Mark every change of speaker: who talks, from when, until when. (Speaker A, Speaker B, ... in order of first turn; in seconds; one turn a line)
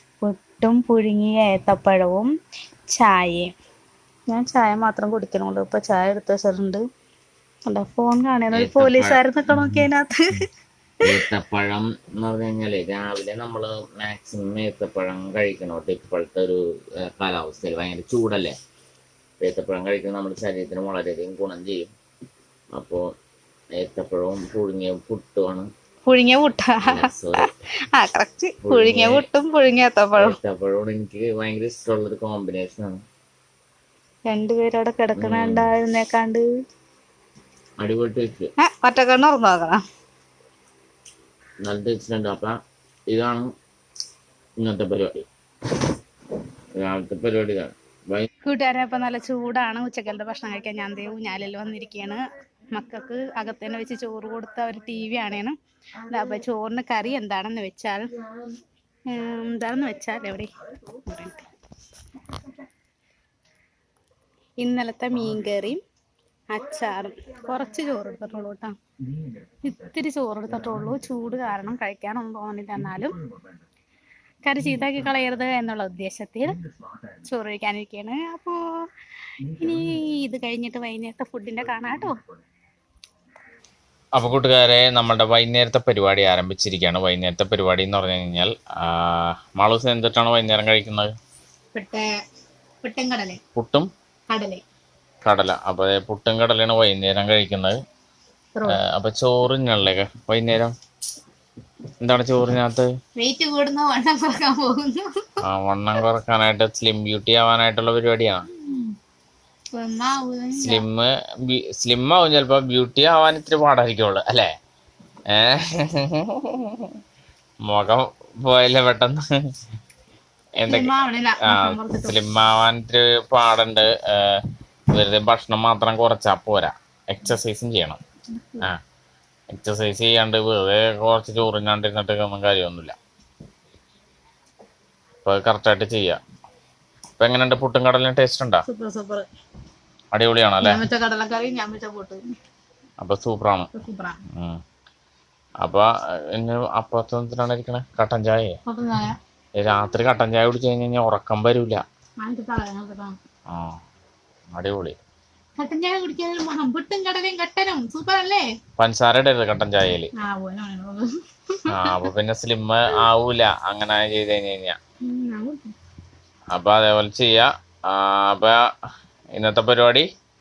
Speaker A: 0.2-2.3
Speaker A: 2.9-3.5
Speaker A: 4.3-6.8
Speaker A: 7.7-10.4
Speaker B: 8.5-9.2
Speaker B: 11.0-18.5
Speaker B: 19.4-21.9
Speaker B: 22.7-23.0
Speaker B: 23.8-25.7
Speaker A: 26.1-30.4
Speaker B: 26.8-27.5
Speaker B: 28.6-29.2
Speaker B: 30.2-33.0
Speaker A: 34.3-36.4
Speaker B: 35.1-35.7
Speaker B: 37.8-38.5
Speaker A: 38.6-39.8
Speaker B: 41.6-42.5
Speaker B: 43.1-43.5
Speaker B: 44.6-45.2
Speaker B: 46.8-48.3
Speaker A: 48.4-52.2
Speaker A: 52.7-55.5
Speaker A: 56.1-58.1
Speaker A: 59.1-60.5
Speaker A: 61.0-61.5
Speaker A: 64.6-65.8
Speaker A: 66.5-68.7
Speaker A: 69.6-73.1
Speaker A: 74.4-76.6
Speaker A: 77.2-78.6
Speaker A: 79.6-82.1
Speaker B: 84.1-91.1
Speaker A: 91.7-92.1
Speaker A: 92.8-93.4
Speaker B: 93.5-93.9
Speaker A: 94.3-94.6
Speaker B: 95.2-97.8
Speaker A: 98.5-98.8
Speaker B: 98.7-100.7
Speaker B: 102.0-102.9
Speaker A: 103.2-105.2
Speaker B: 105.4-108.5
Speaker A: 108.6-108.9
Speaker A: 109.7-110.8
Speaker B: 110.6-114.5
Speaker B: 115.3-116.9
Speaker B: 117.7-119.2
Speaker B: 120.6-120.9
Speaker A: 120.7-122.2
Speaker B: 121.4-128.0
Speaker A: 128.4-128.7
Speaker B: 129.5-132.9
Speaker B: 135.2-136.2
Speaker B: 137.2-138.6
Speaker A: 138.7-139.2
Speaker B: 140.1-140.8
Speaker A: 140.6-142.2
Speaker B: 143.0-143.7
Speaker A: 143.7-144.2
Speaker B: 144.3-144.6
Speaker B: 145.6-148.6
Speaker A: 148.7-149.2
Speaker B: 149.6-151.8
Speaker A: 152.2-153.2
Speaker B: 153.5-153.8
Speaker B: 154.5-154.9
Speaker A: 155.6-158.4
Speaker B: 158.8-160.1
Speaker A: 160.2-162.1
Speaker B: 161.7-164.8
Speaker A: 165.0-165.7
Speaker B: 166.5-168.6
Speaker B: 169.3-170.1